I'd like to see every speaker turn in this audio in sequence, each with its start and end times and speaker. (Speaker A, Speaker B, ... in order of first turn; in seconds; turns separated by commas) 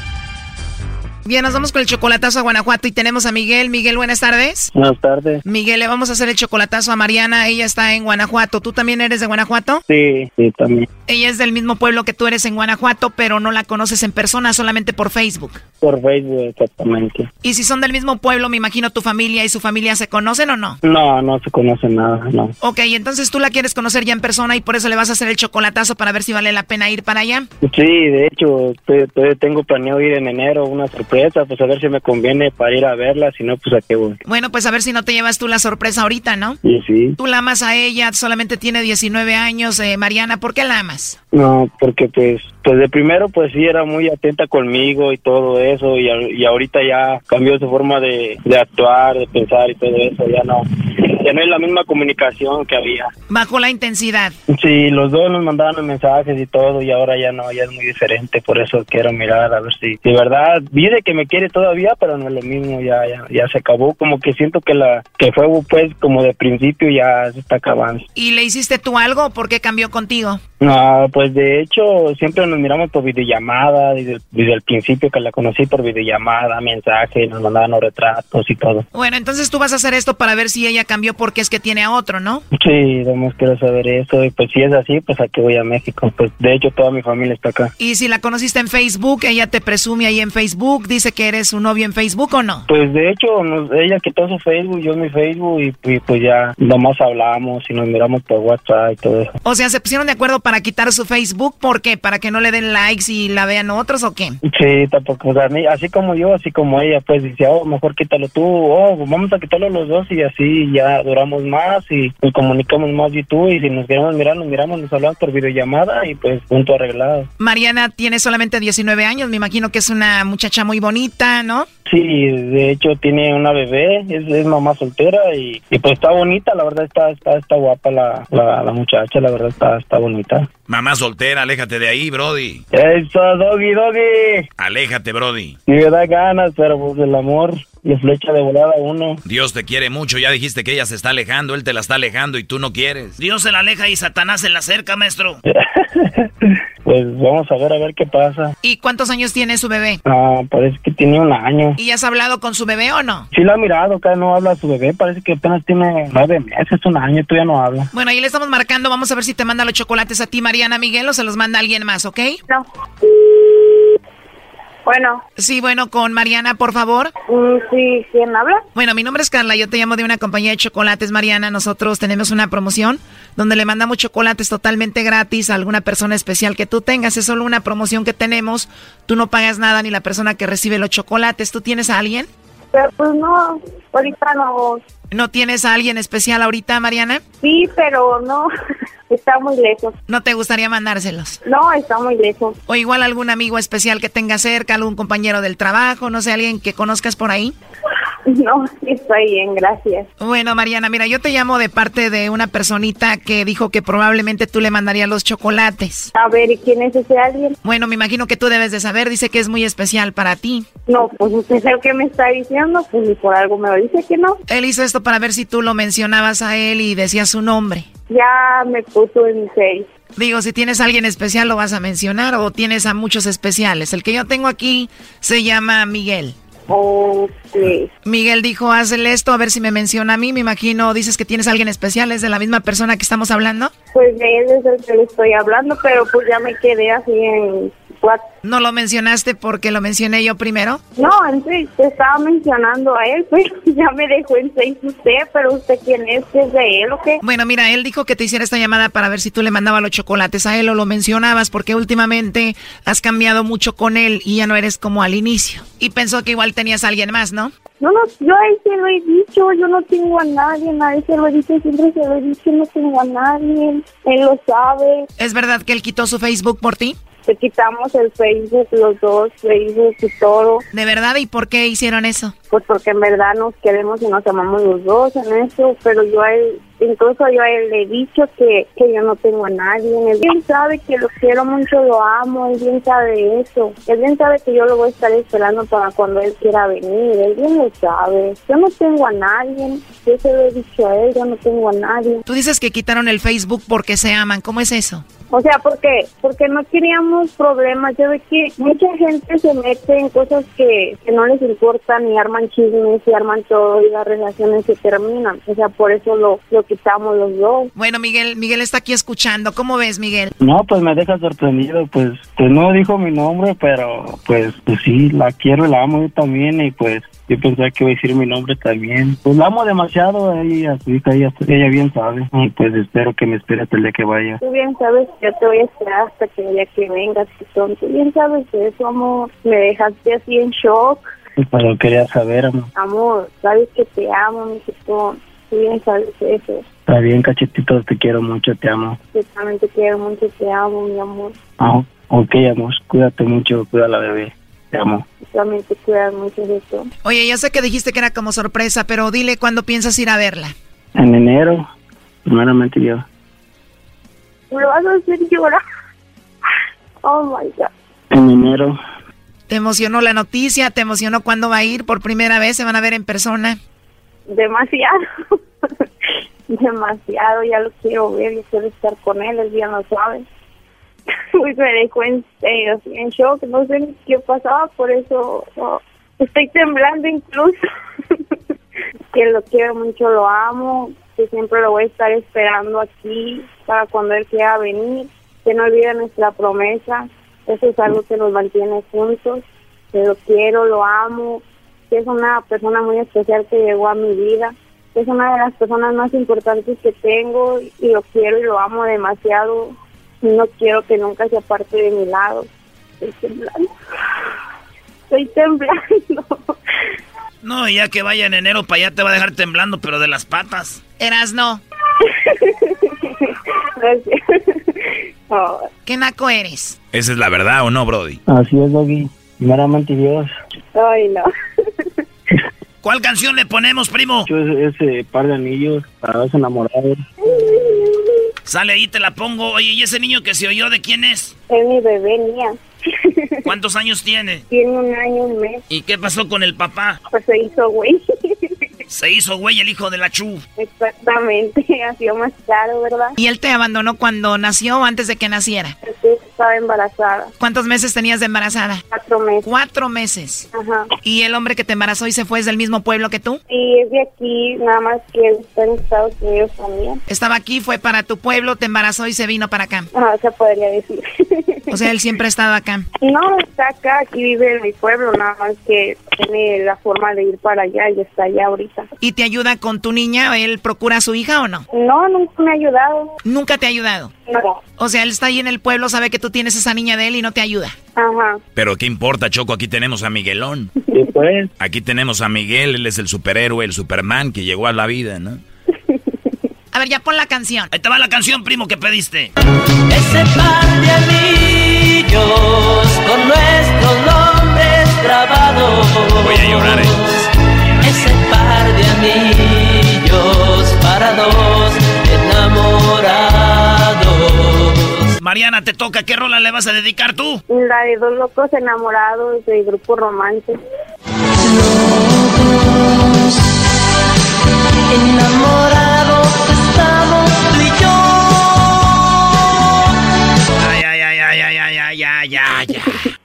Speaker A: 1.2-4.7, Speaker B: 4.8-5.4, Speaker A: 5.5-9.8, Speaker B: 9.9-10.9, Speaker A: 11.1-15.6, Speaker B: 15.8-17.3, Speaker A: 17.4-20.8, Speaker B: 20.8-22.5, Speaker A: 22.6-27.5, Speaker B: 27.6-34.2, Speaker A: 34.3-36.6, Speaker B: 36.6-37.2, Speaker A: 37.2-41.2, Speaker B: 41.3-53.1, Speaker A: 53.3-54.4, Speaker B: 54.5-68.0, Speaker A: 68.2-70.4, Speaker B: 70.6-78.8, Speaker A: 78.9-82.4, Speaker B: 82.5-87.7, Speaker A: 87.8-92.7, Speaker B: 92.7-99.3, Speaker A: 99.5-104.4, Speaker B: 104.4-117.3, Speaker A: 117.4-121.7, Speaker B: 121.9-130.5, Speaker C: 130.7-132.6, Speaker B: 132.7-134.5, Speaker C: 134.6-135.6, Speaker B: 135.7-139.2, Speaker C: 139.2-143.2, Speaker D: 143.2-145.4, Speaker B: 145.5-148.5, Speaker A: 148.6-150.0, Speaker B: 150.1-151.8, Speaker A: 151.8-153.3, Speaker B: 153.3-157.9, Speaker A: 157.9-162.4, Speaker E: 162.5-163.9, Speaker E: 164.8-165.2, Speaker A: 165.4-167.1, Speaker E: 167.3-168.7, Speaker A: 168.8-182.3, Speaker E: 182.7-184.8, Speaker A: 185.1-187.2, Speaker E: 187.4-188.5, Speaker E: 189.1-189.9, Speaker A: 190.1-191.4, Speaker E: 191.4-192.6, Speaker A: 192.7-197.6, Speaker E: 198.2-200.1, Speaker A: 200.2-206.1, Speaker E: 206.2-207.6, Speaker A: 207.6-210.7, Speaker E: 210.9-214.4, Speaker A: 214.5-217.9, Speaker E: 218.1-219.9, Speaker A: 220.2-226.3, Speaker E: 226.7-227.9, Speaker A: 228.1-233.7, Speaker E: 233.9-238.2, Speaker A: 238.4-240.8, Speaker E: 241.0-247.2, Speaker A: 247.2-257.5, Speaker E: 257.8-265.1, Speaker A: 265.2-267.0, Speaker E: 267.2-270.6, Speaker A: 270.7-272.4, Speaker E: 272.5-292.2, Speaker A: 292.3-295.1, Speaker E: 295.3-307.7, Speaker A: 307.8-310.3, Speaker B: 310.4-324.4, Speaker E: 324.4-331.1, Speaker B: 331.4-332.7, Speaker E: 332.8-336.6, Speaker B: 336.9-339.0, Speaker E: 339.1-341.4, Speaker B: 341.6-345.0, Speaker E: 345.3-346.9, Speaker A: 347.0-350.5, Speaker B: 350.9-351.7, Speaker B: 352.2-353.1, Speaker E: 354.5-355.6, Speaker E: 357.0-357.7, Speaker B: 358.1-358.8, Speaker A: 359.5-363.6, Speaker E: 364.3-365.8, Speaker E: 366.5-370.2, Speaker E: 371.3-377.6, Speaker E: 379.1-402.5, Speaker E: 403.0-403.7, Speaker E: 405.1-406.5, Speaker D: 407.4-410.8, Speaker A: 411.0-411.6, Speaker E: 412.0-415.7, Speaker A: 415.9-416.8, Speaker C: 416.9-418.2, Speaker B: 418.3-420.3, Speaker E: 420.8-421.3, Speaker D: 422.8-424.3, Speaker B: 424.3-427.0, Speaker E: 427.3-428.1, Speaker D: 428.4-431.3, Speaker E: 431.5-433.5, Speaker D: 433.4-434.4, Speaker E: 434.5-435.6, Speaker D: 435.7-437.0, Speaker E: 437.1-438.7, Speaker D: 438.9-440.4, Speaker E: 440.6-443.1, Speaker A: 443.2-445.8, Speaker E: 445.8-447.3, Speaker A: 447.4-448.8, Speaker E: 448.9-449.5, Speaker A: 449.4-450.5, Speaker E: 450.5-450.9, Speaker A: 451.0-453.4, Speaker E: 453.5-457.0, Speaker A: 457.1-459.9, Speaker E: 459.9-461.7, Speaker A: 461.7-462.9, Speaker E: 463.0-468.9, Speaker A: 469.0-471.7, Speaker E: 471.7-473.1, Speaker A: 473.3-474.1, Speaker E: 474.3-474.6, Speaker A: 474.8-477.8, Speaker E: 478.0-478.4, Speaker C: 478.6-480.7, Speaker B: 480.9-481.5, Speaker C: 481.6-485.4, Speaker A: 486.7-487.7, Speaker D: 487.7-489.3, Speaker F: 489.9-497.3, Speaker C: 496.2-497.0, Speaker F: 497.8-505.1, Speaker D: 505.2-507.4, Speaker E: 507.5-510.6, Speaker F: 511.4-513.5, Speaker F: 514.9-518.7, Speaker D: 520.6-522.6